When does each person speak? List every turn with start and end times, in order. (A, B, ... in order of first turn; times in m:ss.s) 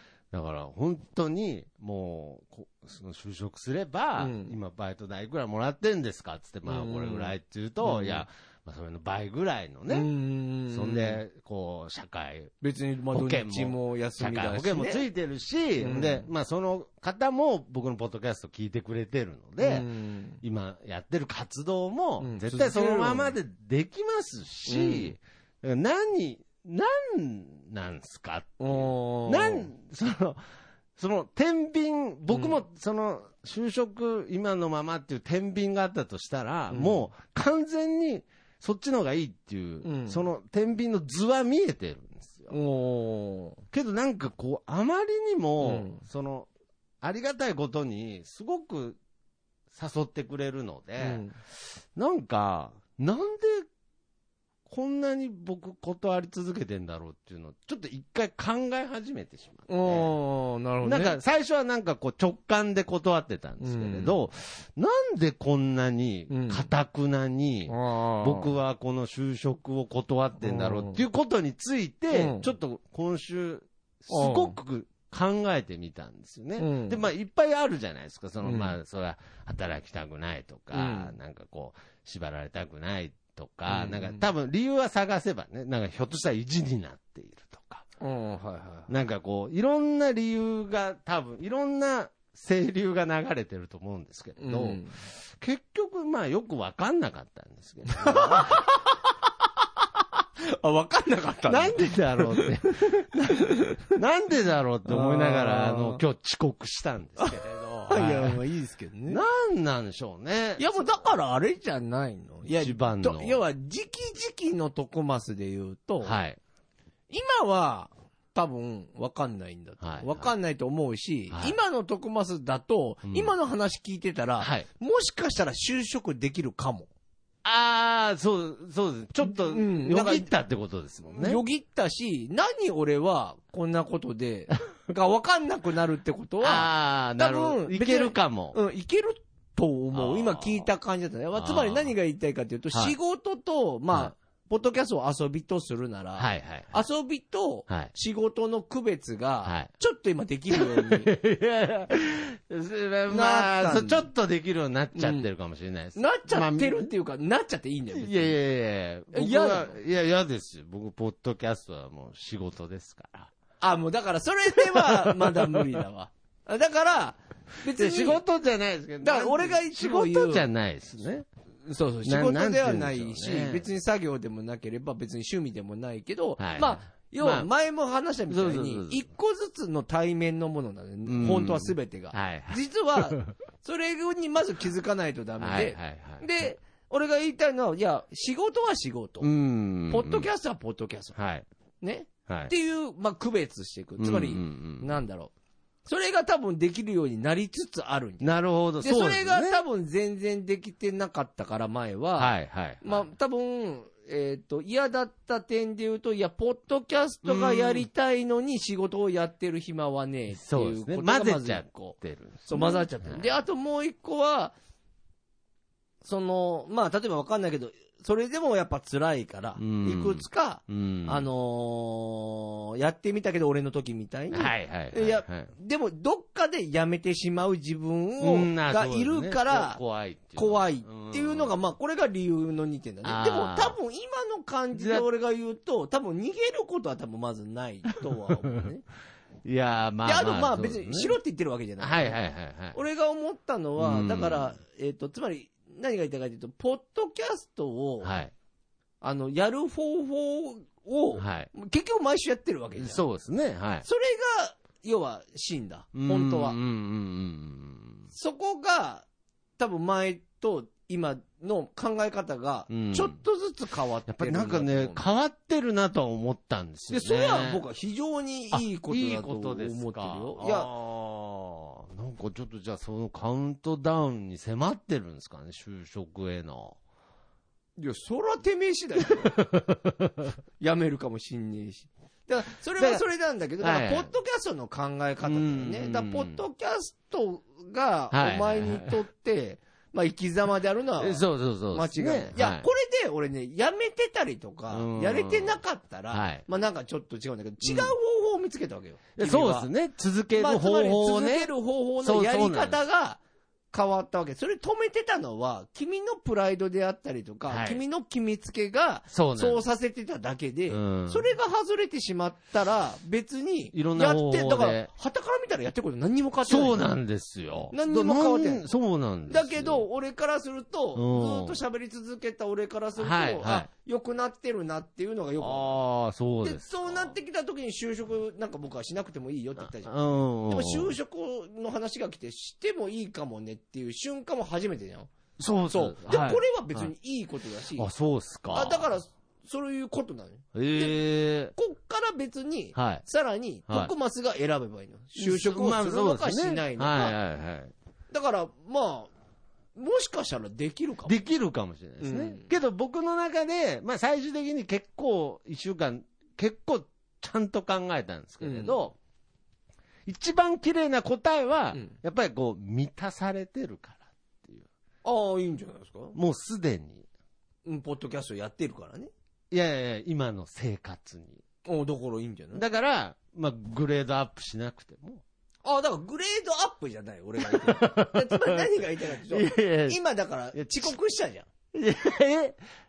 0:00.3-0:10.1 A
0:04.2-0:04.5 B
0:06.6-0:08.2 B
0:09.9-0:11.2 B
0:10.7-0:12.5 A
0:12.6-0:15.0 B
0:13.1-0:19.9 A
0:15.8-0:16.3 B
0:19.6-0:20.4 B
0:20.4-0:30.4 A
0:22.2-0:23.3 B
0:24.6-0:25.1 B
0:28.6-0:29.7 B
0:31.0-0:42.5 A
0:32.3-0:32.6 B
0:36.7-0:37.0 B
0:39.8-0:40.2 B
0:42.5-0:43.6 B
0:43.7-0:46.5 A
0:45.6-0:46.0 B
0:47.0-0:49.0 A
0:49.7-0:51.2 A
0:51.0-0:51.3 B
0:52.0-0:53.7 A
0:54.7-1:00.1 A
0:59.7-1:01.2 B
1:00.8-1:27.8 A
1:03.6-1:04.1 B
1:06.3-1:06.6 B
1:07.7-1:08.5 B
1:10.4-1:11.0 B
1:12.1-1:12.5 B
1:14.1-1:14.6 B
1:16.6-1:17.0 B
1:18.4-1:18.8 B
1:20.7-1:21.1 B
1:23.7-1:24.2 B
1:28.0-1:28.9 B
1:28.9-1:38.7 A
1:34.4-1:34.9 B
1:37.9-1:43.9 B
1:41.5-1:48.4 A
1:44.8-1:46.0 B
1:47.2-1:49.2 B
1:49.1-1:51.1 A
1:50.6-1:56.2 B
1:52.5-1:53.4 A
1:56.0-1:56.4 A
1:57.1-2:06.9 B
1:59.8-2:00.3 A
2:03.0-2:03.3 A
2:04.4-2:04.6 A
2:07.4-2:11.4 A
2:09.2-2:10.3 B
2:11.1-2:31.1 B
2:16.4-2:18.6 A
2:19.9-2:20.7 A
2:21.3-2:21.9 A
2:26.2-2:26.8 A
2:30.5-2:36.9 A
2:33.1-2:34.1 B
2:34.9-2:35.3 B
2:35.9-2:38.4 B
2:37.9-2:43.3 A
2:39.1-2:39.7 B
2:43.6-2:48.2 B
2:44.6-2:45.8 A
2:47.7-2:51.2 A
2:49.0-2:50.5 B
2:51.6-3:09.3 B
2:52.0-2:53.7 A
2:56.4-2:57.5 A
2:58.3-2:59.0 A
3:01.0-3:03.2 A
3:05.4-3:06.3 A
3:09.2-3:10.3 A
3:09.9-3:11.2 B
3:11.2-3:11.4 A
3:11.8-3:15.3 B
3:12.3-3:12.5 A
3:14.0-3:14.9 A
3:15.8-3:18.3 B
3:18.2-3:19.6 A
3:18.8-3:31.9 B
3:22.2-3:23.0 A
3:27.2-3:27.9 A
3:30.3-3:33.3 A
3:32.5-3:34.6 B
3:36.0-3:49.8 B
3:39.6-3:41.3 A
3:44.3-3:45.5 A
3:48.2-3:51.5 A
3:50.3-3:58.8 B
3:53.0-3:53.8 A
3:54.7-3:55.0 A
3:59.4-4:01.2 A
4:00.0-4:02.2 B
4:01.8-4:02.8 A
4:02.7-4:08.1 B
4:03.8-4:04.5 A
4:08.0-4:08.3 A
4:09.0-4:13.0 B
4:11.2-4:11.5 A
4:12.8-4:13.8 A
4:13.8-4:16.6 B
4:15.9-4:18.1 A
4:18.1-4:19.0 B
4:19.6-4:25.0 B
4:22.7-4:23.2 A
4:24.1-4:27.6 A
4:26.9-4:30.7 B
4:28.5-4:36.8 A
4:37.8-4:39.4 B
4:39.2-4:40.3 A
4:40.6-4:59.7 B
4:42.8-4:43.0 A
4:43.6-4:44.1 A
4:45.2-4:46.4 A
4:48.1-4:49.0 A
4:51.0-4:52.7 A
4:54.7-4:55.6 A
4:56.1-4:56.4 A
4:57.6-4:57.9 A
4:59.2-5:02.8 A
5:00.3-5:03.2 B
5:03.7-5:16.9 B
5:07.5-5:07.8 A
5:09.1-5:09.6 A
5:10.7-5:11.3 A
5:13.7-5:14.9 A
5:16.4-5:19.8 A
5:17.7-5:18.6 B
5:19.3-5:25.8 B
5:20.9-5:21.6 A
5:23.0-5:23.7 A
5:25.4-5:27.1 A
5:26.4-5:29.9 B
5:29.6-5:30.9 A
5:30.5-5:35.1 B
5:35.4-5:36.9 A
5:35.7-5:37.9 B
5:37.7-5:38.9 A
5:38.5-5:41.0 B
5:40.5-5:41.5 A
5:41.5-5:47.2 B
5:42.7-5:43.0 A
5:45.2-5:47.7 A
5:48.1-5:49.1 B
5:49.8-5:51.2 B
5:51.0-5:59.0 A
5:52.0-5:52.5 B
5:58.4-5:58.8 B
6:00.0-6:04.7 A
6:05.0-6:06.2 B
6:06.1-6:07.1 A
6:07.6-6:09.1 B
6:09.5-6:11.4 A
6:11.6-6:12.6 B
6:12.5-6:15.2 A
6:15.6-6:21.5 B
6:17.4-6:20.0 A
6:20.5-6:20.9 A
6:21.7-6:22.6 A